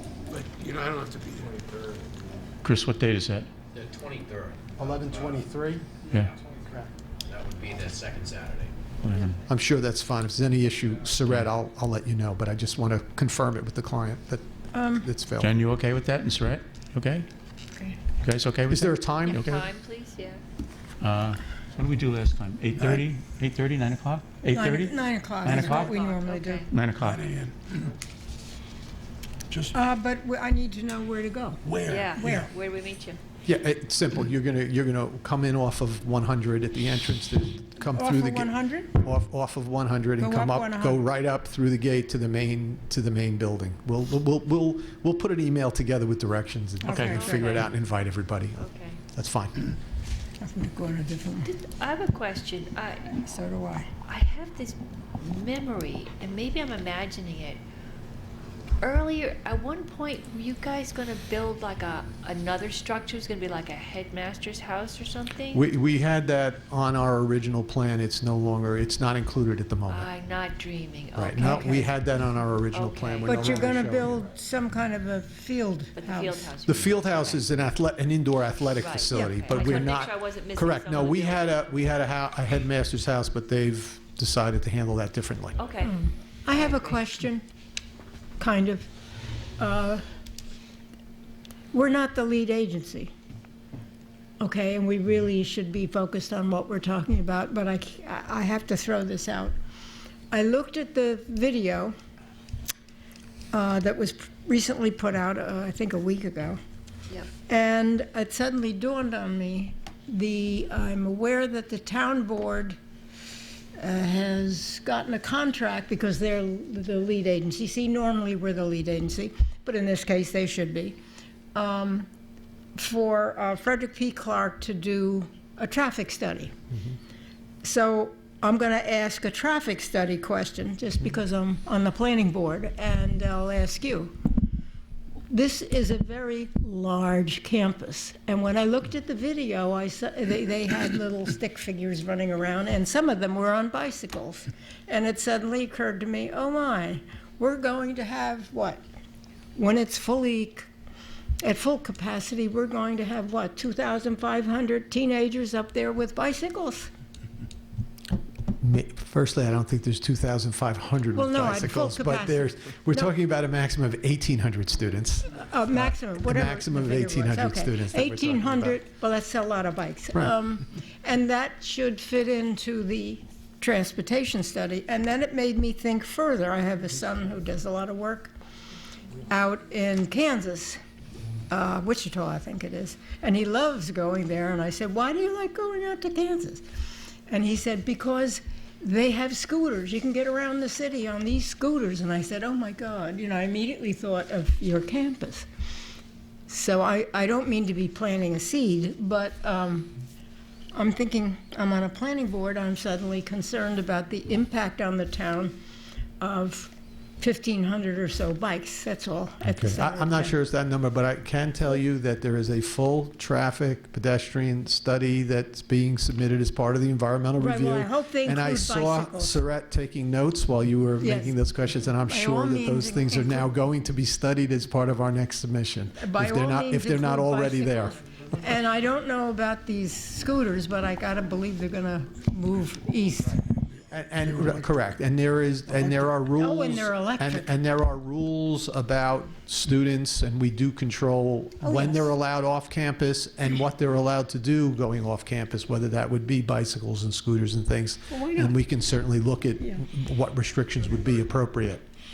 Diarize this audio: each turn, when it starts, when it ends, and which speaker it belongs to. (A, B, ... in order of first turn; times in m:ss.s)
0:00.3-0:01.6 A
0:01.7-0:02.0 B
0:02.6-0:03.5 C
0:03.8-0:05.4 B
0:04.8-0:05.9 D
0:06.1-0:06.4 B
0:06.6-0:06.9 D
0:07.3-0:08.7 B
0:09.0-0:09.4 C
0:09.5-0:15.5 D
0:14.7-0:15.1 E
0:15.4-0:17.3 C
0:18.2-0:19.6 C
0:18.7-0:19.5 D
0:19.2-0:20.4 F
0:21.0-0:25.9 C
0:24.5-0:26.6 E
0:25.6-0:26.7 F
0:26.7-0:27.2 C
0:27.0-0:27.9 A
0:29.5-0:29.7 A
0:29.7-0:31.6 E
0:31.6-0:32.5 A
0:31.9-0:33.2 F
0:32.2-0:32.5 E
0:33.4-0:49.7 D
0:37.9-0:38.9 E
0:40.2-0:41.0 E
0:46.8-0:47.6 E
0:47.0-0:47.7 F
0:48.6-0:49.0 F
0:50.4-0:51.5 E
0:51.4-0:53.2 F
0:53.2-0:53.9 E
0:54.1-0:57.6 F
0:58.8-1:05.6 F
1:05.5-1:10.1 D
1:09.9-1:13.8 F
1:11.1-1:14.2 D
1:13.2-1:16.5 E
1:15.9-1:17.5 F
1:16.6-1:25.6 D
1:18.8-1:22.1 F
1:19.1-1:19.9 E
1:25.6-1:27.0 F
1:25.8-1:27.4 E
1:28.4-1:28.9 E
1:29.6-1:30.0 E
1:31.7-1:33.1 E
1:34.4-1:39.6 E
1:40.3-1:41.9 E
1:43.5-1:46.6 E
1:47.5-1:52.8 E
1:53.8-2:01.0 E
2:01.5-2:02.1 E
2:02.7-2:06.5 E
2:07.6-2:14.1 E
2:15.3-2:28.8 E
2:29.5-2:30.7 E
2:31.4-2:36.9 E
2:38.6-2:48.8 D
2:41.1-2:43.1 E
2:45.3-2:58.3 E
2:59.3-3:00.8 E
3:01.5-3:06.6 E
3:07.3-3:15.5 E
3:16.5-3:19.9 E
3:20.7-3:25.5 E
3:26.2-3:30.4 E
3:29.4-3:48.0 D
3:37.4-3:39.4 E
3:41.0-3:41.4 E
3:42.0-3:43.6 E
3:46.0-3:53.4 E
3:53.9-4:11.8 D
3:56.3-3:57.5 E
4:01.6-4:02.1 E
4:08.1-4:08.6 E